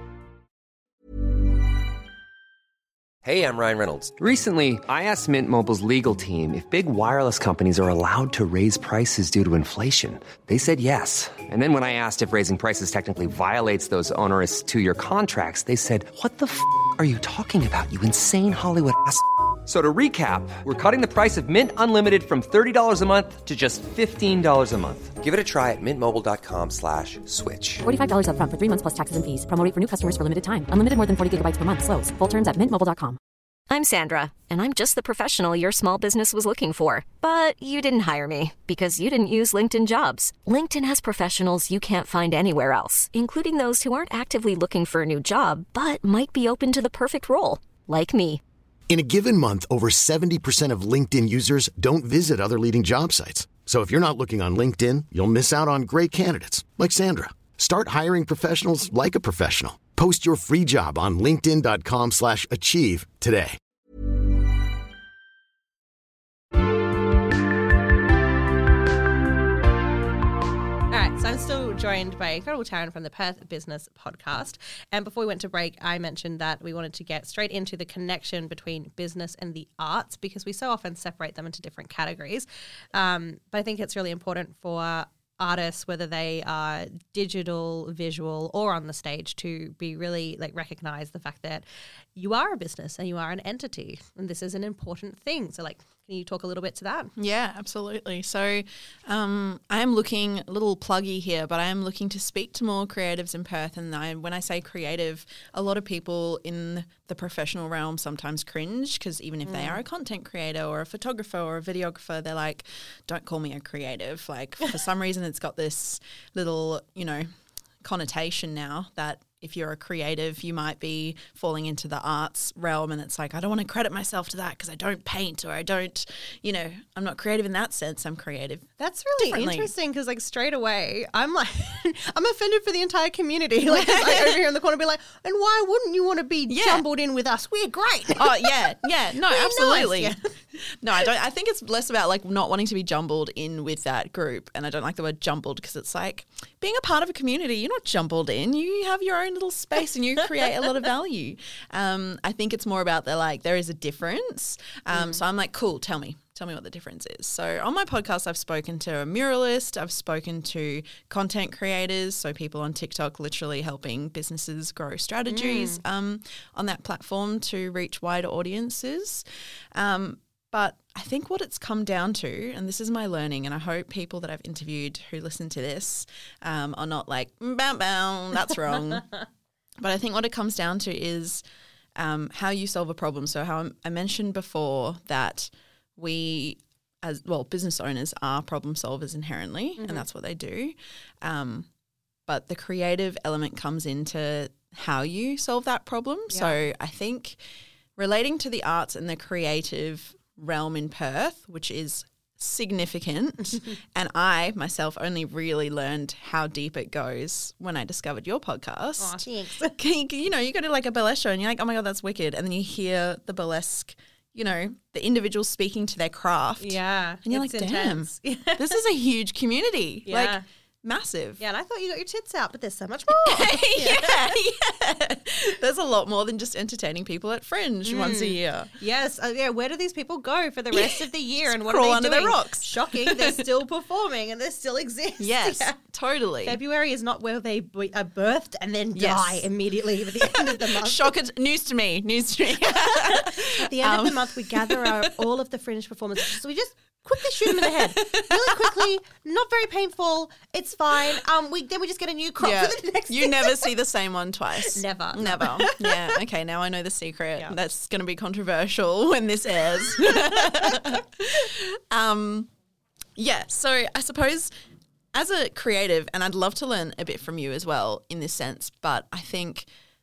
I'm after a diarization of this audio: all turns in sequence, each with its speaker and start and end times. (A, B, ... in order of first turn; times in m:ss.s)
0:03.2-0:27.8 A
0:27.8-0:33.2 B
0:33.7-0:48.4 C
0:48.9-1:03.6 D
1:10.9-1:31.6 E
1:32.1-1:37.1 E
1:37.2-1:57.3 F
1:49.4-1:49.8 E
1:57.8-2:09.7 F
2:08.8-2:18.7 E
2:13.7-2:14.4 F
2:16.5-2:16.8 F
2:18.2-2:20.2 F
2:19.2-2:20.2 E
2:20.7-2:59.0 F
2:34.9-2:35.2 E
2:45.3-2:45.8 E
2:59.8-3:01.4 F
3:02.0-3:11.7 F
3:09.8-3:10.0 E
3:12.3-3:17.4 F
3:16.3-3:16.6 E
3:18.0-3:41.4 F
3:29.0-3:29.8 E
3:36.6-3:38.8 E
3:40.1-3:40.4 E
3:41.4-3:44.4 E
3:43.1-3:48.7 F
3:47.9-3:55.8 E
3:50.7-3:53.4 F
3:55.2-3:56.6 F
3:56.4-4:01.1 E
3:58.9-3:59.4 F
4:00.2-4:05.2 F
4:02.7-4:13.7 E
4:07.6-4:08.6 F
4:12.4-4:22.5 F
4:14.7-4:16.2 E
4:23.2-4:24.5 F
4:25.1-4:29.7 F